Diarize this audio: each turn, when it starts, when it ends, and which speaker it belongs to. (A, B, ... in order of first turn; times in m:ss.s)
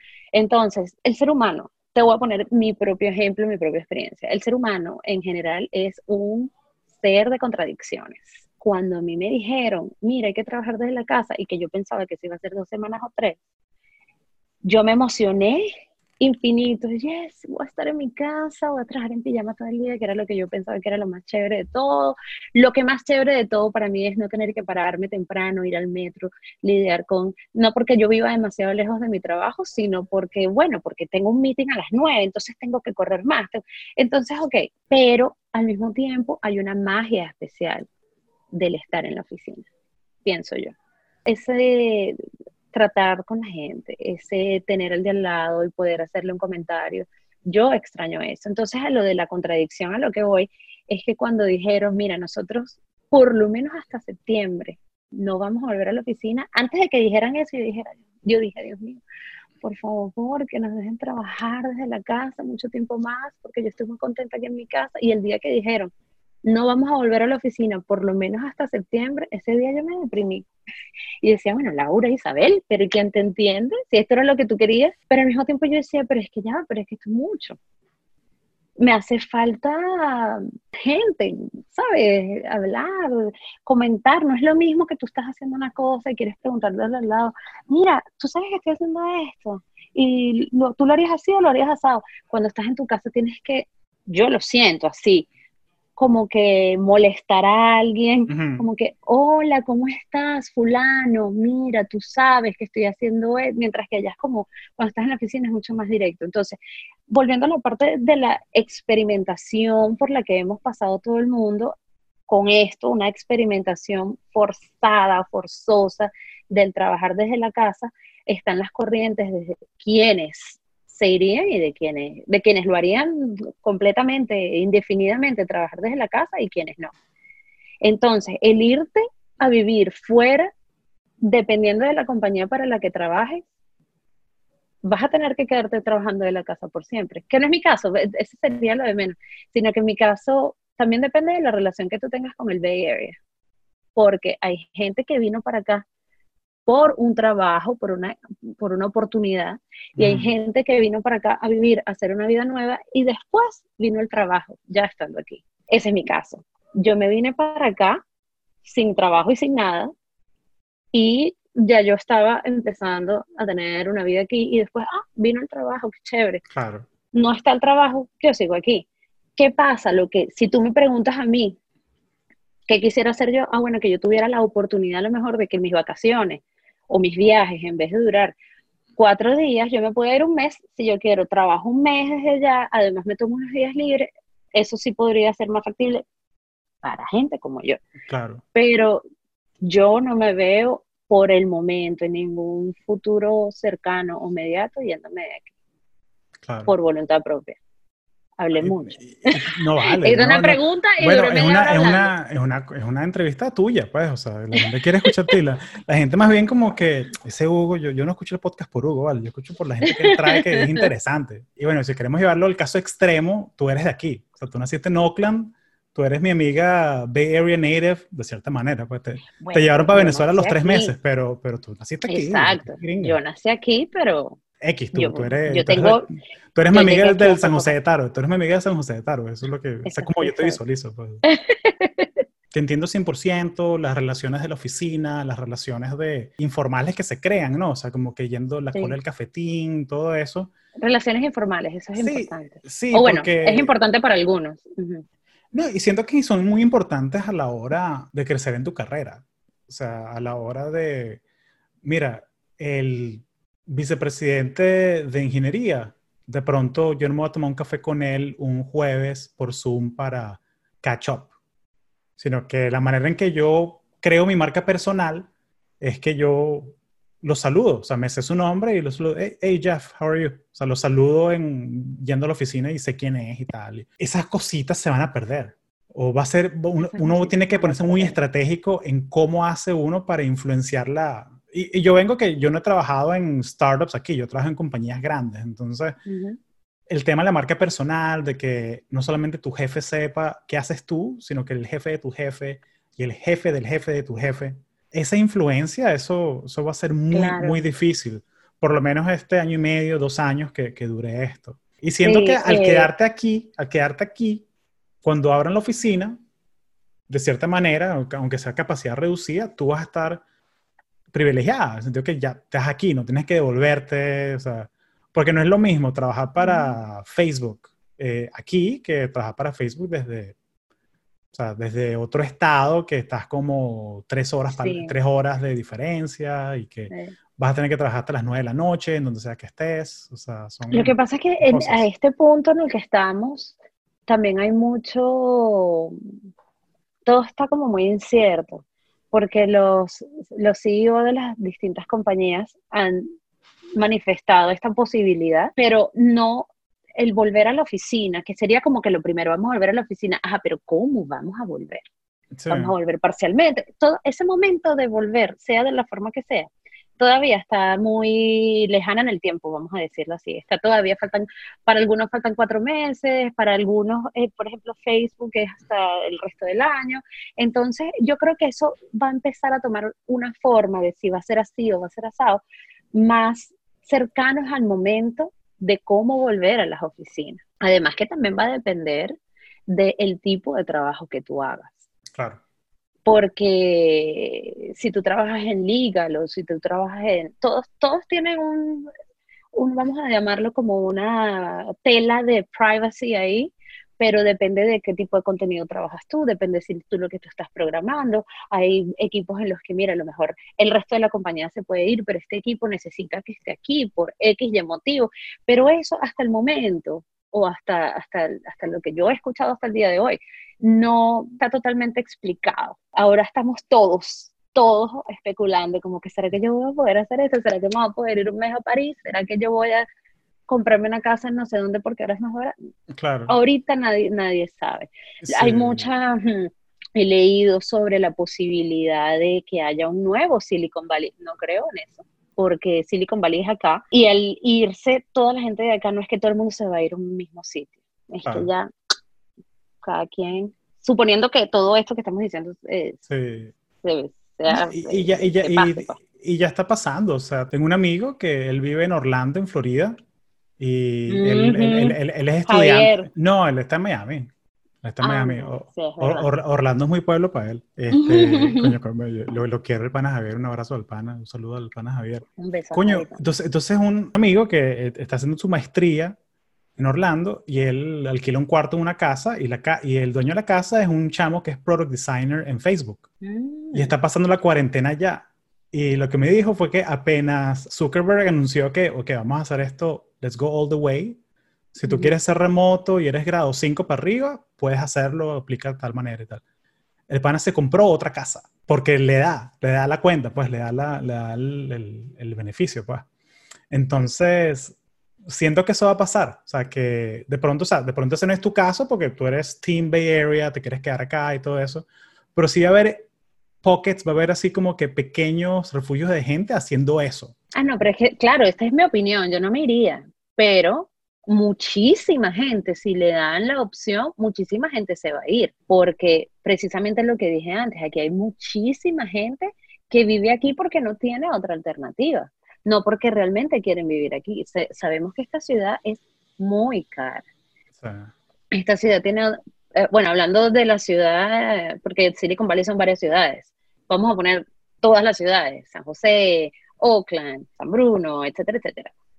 0:00.3-0:13.4 A
0:14.6-0:15.7 A
0:16.2-0:37.9 A
0:38.5-0:39.7 A
0:40.2-0:40.7 A
0:41.3-0:42.2 A
0:42.7-0:59.0 A
0:59.6-1:05.9 A
1:06.4-1:10.5 A
1:11.2-1:17.6 A
1:18.8-1:35.3 A
1:36.0-1:46.6 A
1:38.3-1:38.7 B
1:47.1-1:51.8 A
1:52.3-2:06.9 A
2:07.8-2:10.5 A
2:11.2-2:13.5 A
2:14.8-2:23.2 A
2:24.0-2:25.8 A
2:26.7-2:38.0 A
2:30.0-2:30.3 B
2:38.6-2:39.9 A
2:40.9-2:46.4 A
2:46.5-2:46.9 B
2:47.1-2:51.6 A
2:52.7-2:58.4 A
2:59.0-3:06.0 A
3:06.8-3:07.8 A
3:08.1-3:08.4 B
3:08.6-3:09.0 A
3:09.6-3:15.5 A
3:16.4-3:16.7 B
3:16.7-3:17.6 A
3:18.4-3:22.1 A
3:18.6-3:43.2 B
3:29.9-3:30.7 A
3:39.4-3:41.0 A
3:42.1-3:44.4 A
3:44.6-3:51.2 B
3:44.9-3:46.1 A
3:46.7-3:47.8 A
3:49.8-3:50.6 A
3:51.2-3:52.2 A
3:52.5-4:00.5 B
4:00.8-4:05.0 A
4:02.0-4:03.8 B
4:05.5-4:11.2 B
4:11.8-4:21.3 B
4:22.2-4:25.3 B
4:25.8-4:46.0 B
4:36.8-4:38.2 A
4:46.1-4:46.4 A
4:46.9-5:04.5 B
4:57.1-4:57.6 A
5:02.0-5:02.9 A
5:05.0-5:06.2 B
5:07.1-5:10.2 B
5:11.1-5:20.4 B
5:16.4-5:16.8 A
5:21.3-5:31.9 B
5:24.5-5:24.9 A
5:30.7-5:36.0 A
5:37.1-5:43.1 A
5:43.8-5:51.9 A
5:52.4-5:52.8 B
5:52.5-6:21.8 A
6:22.1-6:22.4 B
6:23.1-6:28.9 A
6:29.5-6:59.9 A
7:00.5-7:02.5 A
7:02.9-7:03.4 B
7:03.3-7:18.7 A
7:05.2-7:05.9 B
7:18.2-7:18.5 B
7:19.8-7:23.0 A
7:23.1-7:23.5 B
7:23.8-7:26.0 A
7:24.5-7:30.0 B
7:30.6-7:34.3 B
7:31.1-7:33.1 A
7:34.8-7:46.2 B
7:35.0-7:36.3 A
7:37.9-7:38.7 A
7:42.4-7:43.2 A
7:46.8-7:53.1 B
7:53.2-7:53.9 A
7:53.7-8:01.2 B
8:01.7-8:06.4 B
8:01.9-8:02.2 A
8:07.1-8:13.1 B
8:13.7-8:23.1 B
8:23.6-8:27.4 B
8:27.6-8:47.2 A
8:47.8-8:48.1 B
8:48.5-8:58.9 A